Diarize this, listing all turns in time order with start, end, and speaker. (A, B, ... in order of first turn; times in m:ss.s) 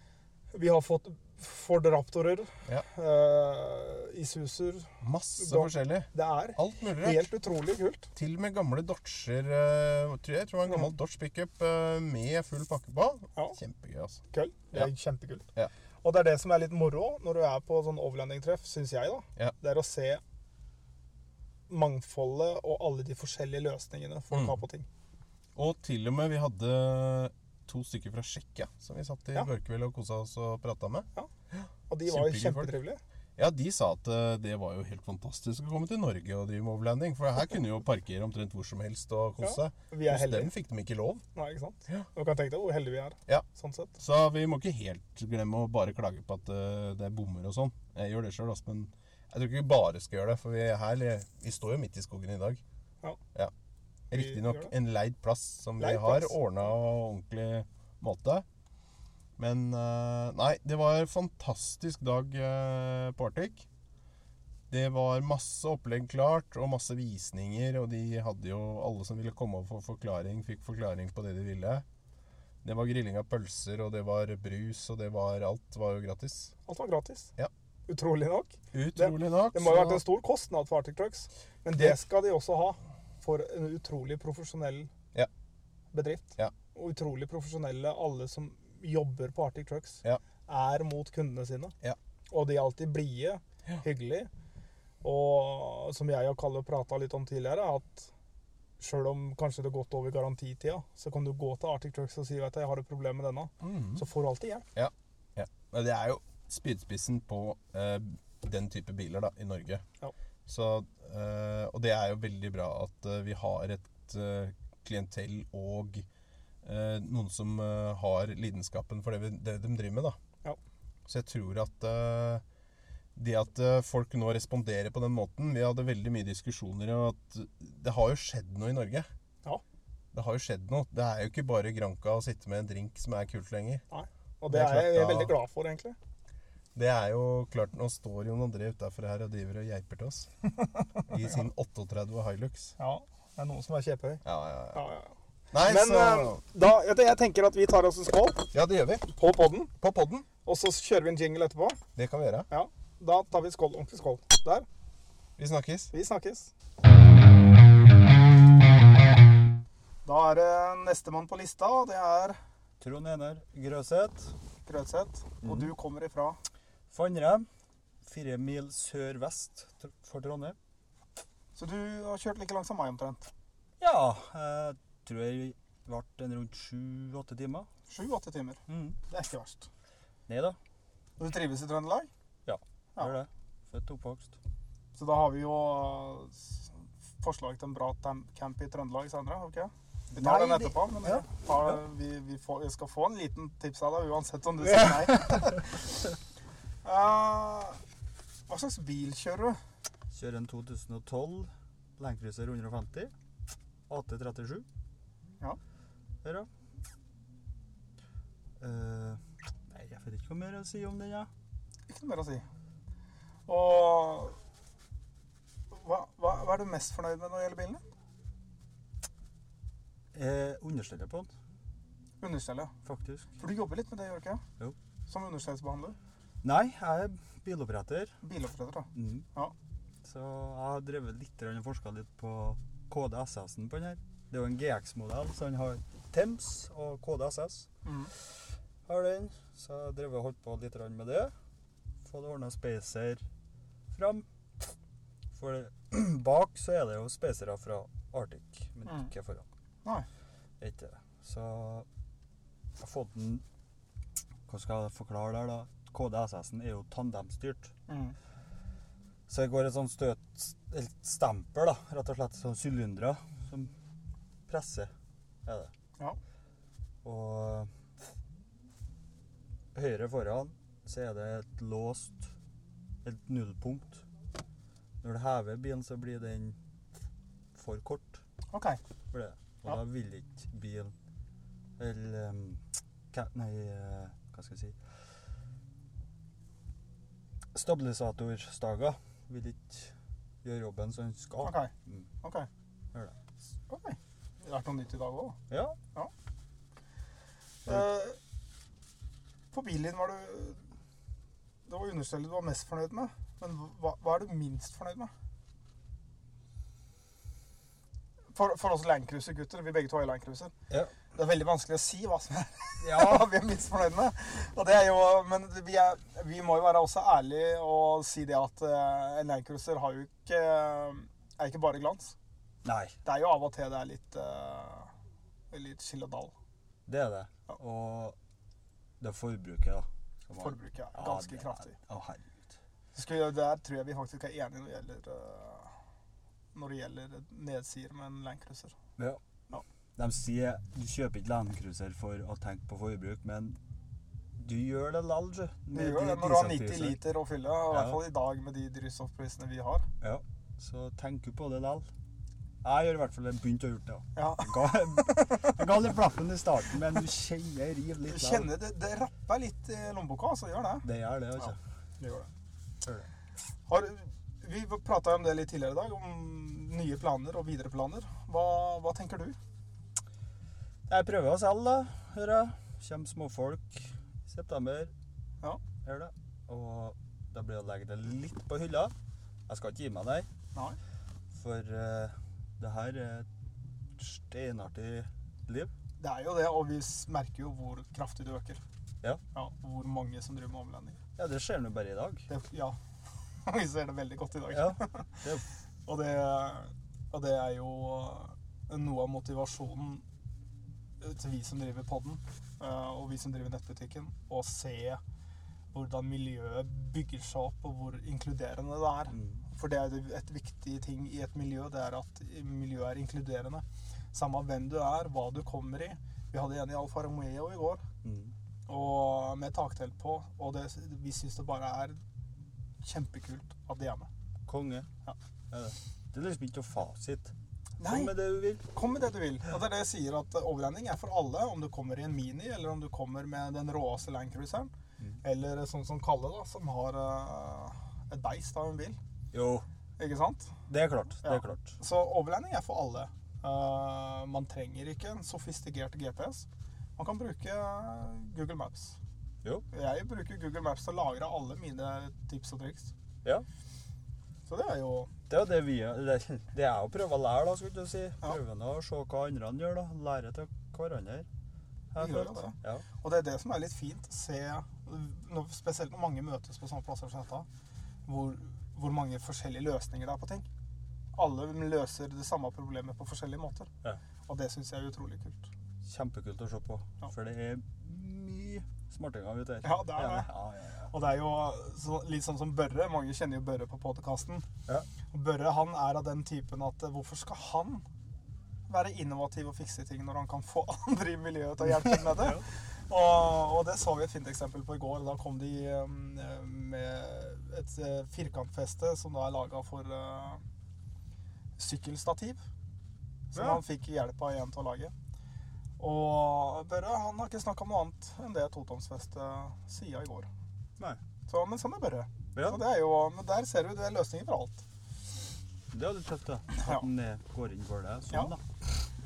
0:00.5-0:08.1 A
0:05.0-0:07.3 B
0:08.1-0:14.2 B
0:14.3-0:15.5 A
0:16.0-0:20.2 A
0:21.7-0:24.8 A
0:24.3-0:24.6 B
0:25.6-0:32.7 B
0:31.9-0:33.0 A
0:33.4-0:41.2 B
0:39.4-0:40.5 A
0:41.3-0:43.9 A
0:44.0-0:52.6 B
0:54.1-0:58.4 B
0:54.1-0:54.7 A
0:55.8-0:56.4 A
0:59.4-1:03.6 B
1:04.7-1:11.8 B
1:12.6-1:16.5 B
1:16.6-1:17.3 A
1:17.9-1:24.9 A
1:18.7-1:20.0 B
1:25.9-1:31.7 A
1:32.3-1:34.3 A
1:35.0-1:38.1 A
1:38.8-1:44.6 A
1:43.6-1:44.0 B
1:44.7-1:49.8 B
1:50.5-1:56.0 B
1:56.6-2:00.2 B
2:01.1-2:02.4 B
2:03.2-2:09.1 B
2:10.1-2:13.8 B
2:13.9-2:16.0 A
2:14.5-2:15.3 B
2:16.7-2:20.3 B
2:21.1-2:22.7 B
2:22.8-2:24.2 A
2:24.2-2:24.8 B
2:24.7-2:28.5 A
2:25.5-2:26.4 B
2:28.5-2:29.1 B
2:29.1-2:31.8 A
2:32.0-2:32.5 B
2:32.5-2:34.7 A
2:35.4-2:35.9 B
2:35.9-2:36.5 A
2:40.0-2:42.4 A
2:42.8-2:44.3 C
2:44.6-2:46.4 A
2:46.9-2:47.5 C
2:48.0-2:50.6 C
2:51.5-2:53.3 A
2:53.8-2:57.7 C
2:57.9-2:59.7 A
2:58.7-2:59.0 C
3:00.3-3:00.6 C
3:01.2-3:02.1 A
3:02.4-3:04.4 C
3:04.9-3:15.7 A
3:10.1-3:11.8 C
3:16.8-3:17.8 A
3:18.5-3:19.6 A
3:20.1-3:23.1 C
3:23.9-3:24.6 C
3:28.6-3:31.3 C
3:31.9-3:32.4 A
3:33.5-3:34.4 A
3:35.7-3:37.8 A
3:40.1-3:41.3 C
3:42.2-3:42.7 A
3:42.8-3:43.3 C
3:43.4-3:44.4 A
3:45.1-3:46.0 A
3:46.4-3:48.2 C
3:48.2-3:49.5 A
3:48.9-3:49.2 C
3:50.0-4:01.3 C
3:57.8-3:58.1 A
4:02.0-4:03.2 C
4:03.9-4:04.7 C
4:05.3-4:09.4 C
4:08.8-4:09.1 A
4:10.6-4:11.8 C
4:12.8-4:13.4 C
4:14.5-4:17.7 C
4:17.9-4:18.1 A
4:19.3-4:23.7 C
4:24.5-4:24.9 C
4:25.4-4:25.7 C
4:27.0-4:27.7 C
4:29.7-4:32.3 C
4:33.0-4:34.0 C
4:35.0-4:36.6 C
4:37.5-4:38.2 C
4:38.5-4:38.8 A
4:39.1-4:40.9 C
4:41.8-4:45.0 C
4:47.5-4:52.1 C
4:51.4-4:51.7 A
4:52.2-4:52.5 A
4:53.7-4:55.4 A
4:55.5-4:55.8 C
4:57.6-4:58.2 A
4:59.5-5:00.6 A
5:01.6-5:05.1 A
5:08.3-5:10.5 A
5:11.1-5:22.1 A
5:12.8-5:13.2 C
5:22.6-5:23.0 C
5:23.0-5:24.9 A
5:25.5-5:26.3 A
5:26.9-5:28.2 C
5:29.0-5:32.5 C
5:30.4-5:31.7 A
5:32.9-5:35.7 A
5:36.5-5:38.8 A
5:40.0-5:43.6 C
5:44.4-5:47.0 C
5:45.7-5:49.9 A
5:47.7-5:48.0 C
5:50.0-5:51.9 C
5:52.6-5:58.5 C
5:54.1-5:55.6 A
5:58.1-6:00.8 A
6:00.8-6:01.6 C
6:01.4-6:02.3 A
6:03.7-6:09.4 A
6:10.9-6:14.9 C
6:15.8-6:18.9 C
6:19.5-6:20.3 C
6:21.3-6:23.3 C
6:24.0-6:25.7 C
6:26.0-6:28.6 A
6:29.3-6:31.0 A
6:31.2-6:32.3 C
6:32.3-6:32.8 A
6:33.4-6:35.2 A
6:34.5-6:35.4 C
6:35.8-6:40.0 A
6:41.0-6:45.0 A
6:45.7-6:57.8 A
6:49.1-6:49.4 C
6:58.0-6:58.3 C
6:58.7-7:02.0 A
7:02.8-7:04.1 A
7:04.5-7:04.9 C
7:05.5-7:08.6 C
7:07.8-7:19.0 A
7:19.3-7:19.6 C
7:20.0-7:20.5 A
7:20.7-7:21.8 C
7:21.2-7:26.4 A
7:27.0-7:29.0 A
7:29.7-7:32.9 A
7:34.5-7:35.1 A
7:35.3-7:41.3 C
7:41.9-7:42.8 C
7:42.0-7:47.5 A
7:48.0-7:50.5 A
7:51.1-7:53.7 A
7:54.3-7:55.5 A
7:55.8-8:00.9 C
7:59.6-8:00.3 A
8:00.9-8:04.5 A
8:05.1-8:07.8 A
8:08.7-8:20.4 A
8:11.8-8:12.4 C
8:21.6-8:22.4 A
8:23.3-8:24.9 A
8:23.3-8:23.6 C
8:25.8-8:30.3 A
8:31.3-8:34.6 A
8:32.3-8:32.6 C
8:35.7-8:38.4 C
8:36.6-8:36.8 A